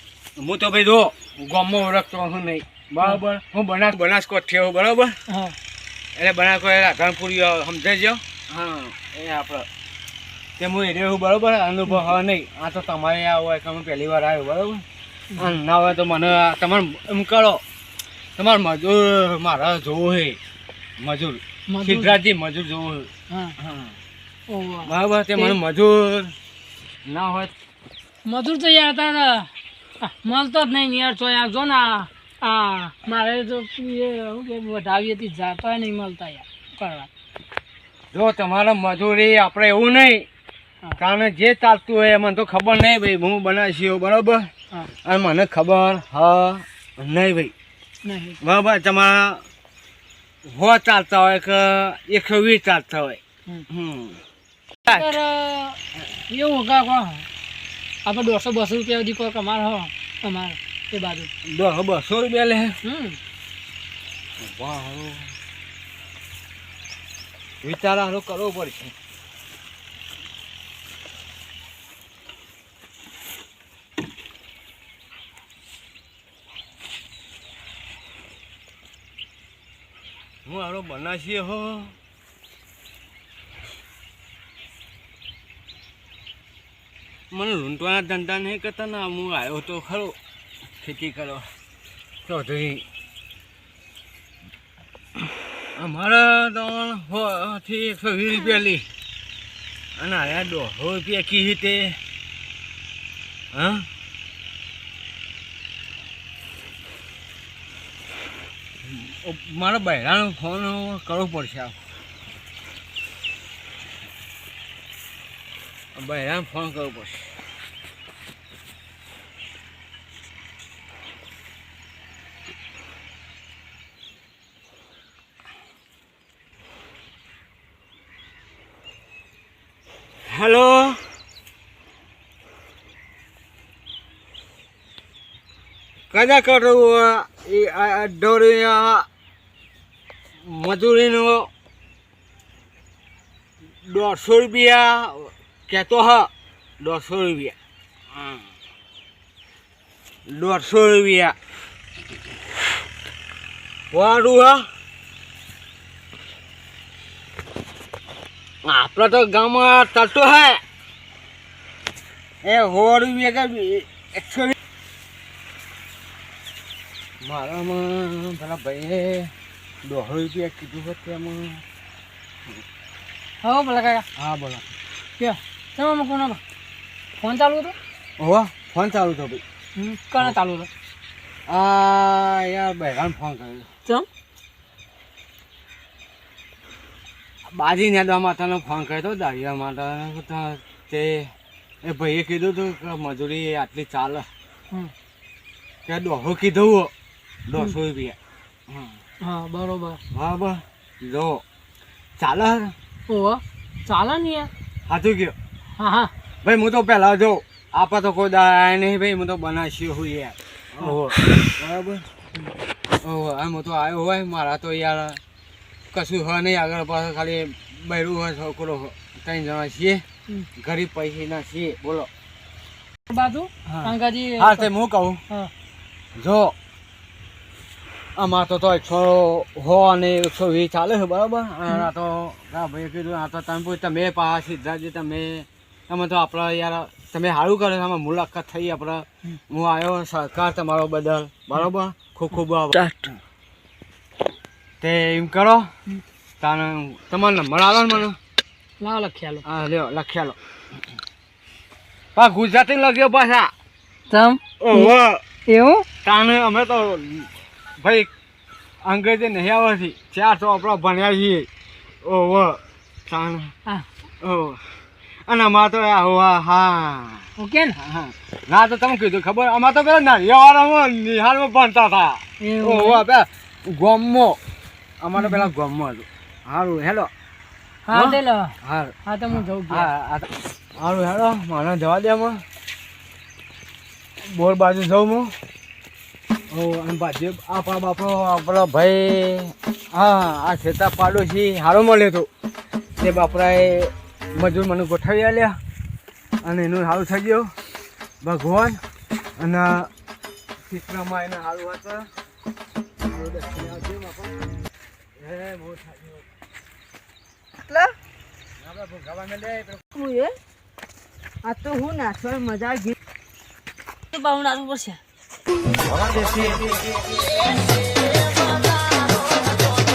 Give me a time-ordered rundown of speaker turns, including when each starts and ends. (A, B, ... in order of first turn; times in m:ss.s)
0:00.4-0:05.2 A
0:05.3-0:05.6 B
0:06.2-0:09.7 A
0:10.6-0:14.8 A
0:15.3-0:15.6 B
0:15.4-0:17.6 A
0:18.4-0:20.4 A
0:21.0-0:24.0 A
0:21.7-0:22.2 B
0:23.3-0:23.6 B
0:24.5-0:25.6 B
0:24.8-0:26.4 A
0:27.1-0:27.5 A
0:28.3-0:37.1 B
0:38.1-0:40.3 A
0:41.0-0:44.5 A
0:45.0-0:47.5 A
0:48.0-0:48.4 B
0:48.4-0:49.4 A
0:50.5-0:54.2 A
0:54.9-0:57.3 B
0:58.0-1:01.3 B
1:01.5-1:02.8 A
1:02.8-1:03.2 B
1:04.4-1:05.3 A
1:07.6-1:08.9 A
1:20.4-1:22.0 A
1:27.3-1:30.2 A
1:30.8-1:31.5 A
1:32.3-1:32.8 A
1:35.8-1:38.9 A
1:40.0-1:42.0 A
1:43.5-1:43.9 A
1:48.8-1:51.8 A
1:56.0-1:57.3 A
2:10.3-2:11.0 A
2:16.1-2:19.1 A
2:20.5-2:21.5 A
2:23.9-2:27.6 A
2:30.3-2:31.4 A
2:33.9-2:34.7 A
2:38.7-2:40.6 A
2:42.4-2:44.6 A
2:47.2-2:49.3 A
2:49.8-2:51.6 A
2:53.4-2:54.1 B
2:54.2-2:54.7 A
2:55.2-2:56.4 B
2:57.2-2:57.8 B
2:58.2-2:59.4 A
2:59.8-3:00.7 B
3:01.5-3:03.7 A
3:07.5-3:11.3 A
3:11.8-3:14.3 A
3:15.9-3:16.9 A
3:17.5-3:18.2 A
3:18.7-3:19.0 A
3:19.2-3:20.0 B
3:20.1-3:21.4 A
3:22.2-3:22.7 A
3:23.1-3:24.5 B
3:24.9-3:25.4 A
3:25.8-3:26.1 B
3:26.4-3:32.1 A
3:33.0-3:35.2 A
3:35.9-3:40.0 A
3:40.6-3:42.1 A
3:43.1-3:44.7 B
3:43.7-3:45.2 A
3:46.2-3:46.6 A
3:48.2-4:02.9 A
4:02.8-4:03.1 C
4:04.8-4:05.7 A
4:06.4-4:08.2 A
4:08.8-4:09.4 B
4:09.4-4:10.4 A
4:12.2-4:13.5 A
4:14.1-4:14.9 B
4:14.6-4:15.2 A
4:15.5-4:15.9 B
4:16.0-4:18.1 A
4:18.8-4:21.5 A
4:22.0-4:23.5 A
4:24.2-4:24.6 A
4:25.3-4:27.3 A
4:27.4-4:27.8 B
4:27.8-4:34.4 A
4:32.4-4:33.0 B
4:35.0-4:37.1 A
4:35.2-4:35.5 B
4:37.9-4:38.5 B
4:37.9-4:39.0 A
4:39.0-4:39.9 B
4:39.7-4:42.4 A
4:44.2-4:45.4 A
4:46.5-4:52.3 A
4:53.0-4:55.6 A
4:56.4-4:57.5 A
4:58.2-4:58.8 A
4:59.4-4:59.9 A
5:00.6-5:02.1 A
5:03.1-5:04.4 A
5:05.2-5:06.3 A
5:07.6-5:07.9 C
5:08.6-5:09.9 A
5:09.9-5:10.3 C
5:11.4-5:13.0 C
5:14.1-5:15.0 C